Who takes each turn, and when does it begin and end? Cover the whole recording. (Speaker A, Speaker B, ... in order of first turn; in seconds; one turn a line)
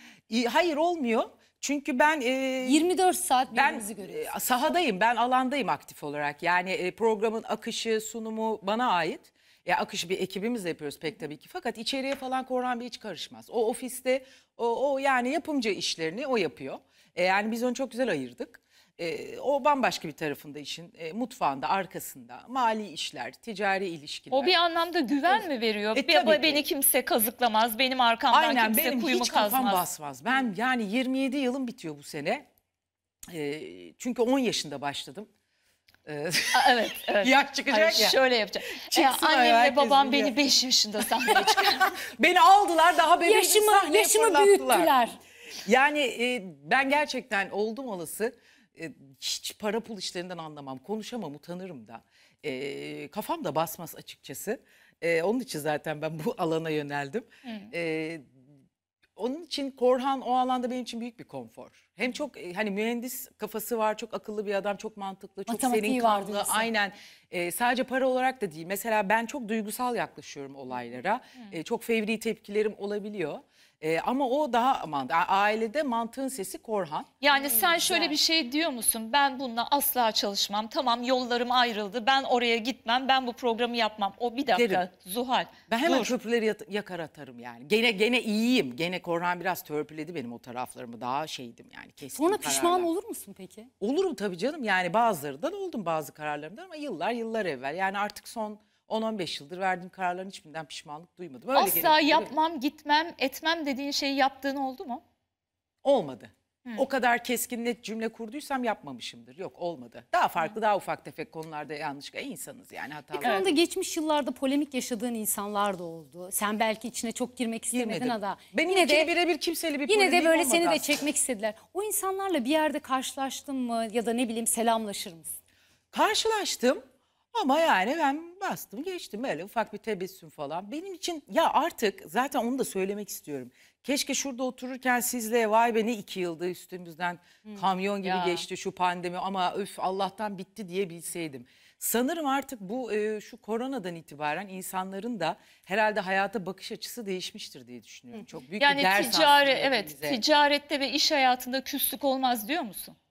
Speaker A: 0.3-2.9
Speaker B: 2.6-4.3
Speaker A: 3.5-24.5
Speaker C: 24.3-29.8
Speaker A: 25.3-26.6
Speaker A: 28.3-32.4
Speaker A: 33.3-35.3
Speaker A: 36.1-38.2
Speaker C: 36.5-42.0
Speaker A: 38.8-40.4
Speaker A: 41.1-44.9
Speaker B: 43.2-45.2
Speaker A: 45.6-58.2
Speaker C: 57.4-57.7
Speaker A: 59.2-77.1
Speaker B: 65.5-66.7
Speaker C: 77.2-86.1
Speaker B: 77.4-78.1
Speaker A: 77.7-78.1
Speaker A: 84.5-84.8
Speaker A: 85.7-92.9
Speaker B: 92.1-93.7
Speaker A: 93.8-102.3
Speaker C: 101.5-105.0
Speaker A: 105.8-113.5
Speaker B: 113.1-119.1
Speaker C: 113.2-113.5
Speaker A: 117.7-121.1
Speaker B: 119.9-125.4
Speaker A: 125.9-126.8
Speaker A: 127.3-150.2
Speaker C: 138.0-138.4
Speaker C: 148.6-153.0